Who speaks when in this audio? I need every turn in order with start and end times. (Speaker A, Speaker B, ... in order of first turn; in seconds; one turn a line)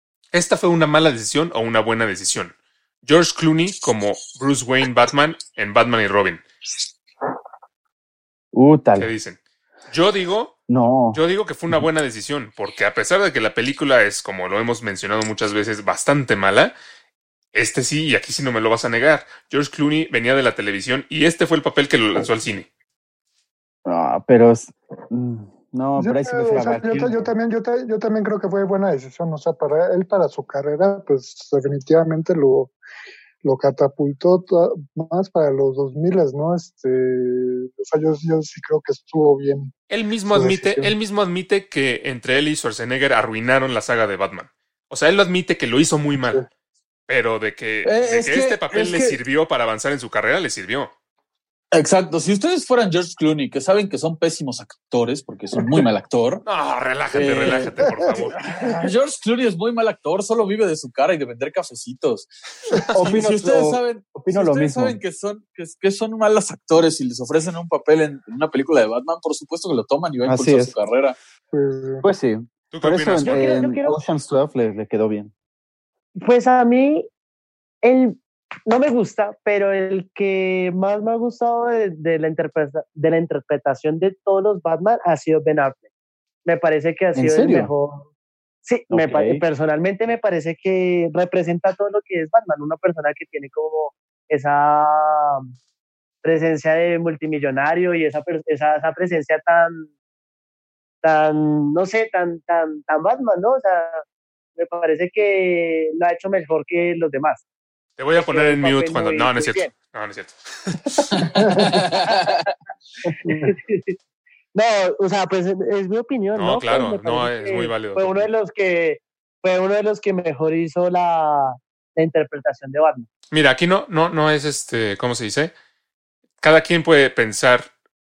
Speaker A: 0.3-6.4
Speaker B: 8.5-9.1
Speaker A: 9.0-9.4
Speaker A: 9.9-10.6
Speaker B: 10.7-11.2
Speaker A: 11.1-16.7
Speaker A: 17.5-22.7
Speaker B: 23.9-27.3
Speaker C: 26.0-32.8
Speaker C: 33.4-39.7
Speaker A: 39.9-46.5
Speaker C: 40.3-41.0
Speaker A: 47.1-50.9
Speaker D: 47.9-49.2
Speaker D: 51.7-56.4
Speaker A: 56.5-58.4
Speaker D: 57.1-62.3
Speaker C: 57.9-58.3
Speaker A: 62.7-63.0
Speaker D: 63.0-71.2
Speaker B: 63.0-65.0
Speaker B: 70.3-70.7
Speaker C: 71.5-72.0
Speaker B: 72.0-75.3
Speaker A: 72.7-73.5
Speaker E: 73.2-74.0
Speaker E: 76.2-77.1
Speaker E: 77.8-85.8
Speaker E: 86.5-88.1
Speaker B: 87.2-87.7
Speaker E: 88.6-95.5
Speaker B: 88.9-89.4
Speaker E: 96.2-99.9
Speaker E: 101.0-104.0
Speaker E: 104.6-107.4
Speaker A: 108.0-111.3
Speaker E: 108.2-109.7
Speaker D: 111.1-112.5
Speaker C: 111.3-111.8
Speaker C: 113.0-113.5
Speaker E: 113.3-114.0
Speaker E: 114.5-123.1
Speaker A: 116.3-118.3
Speaker A: 123.3-125.5
Speaker A: 126.4-127.7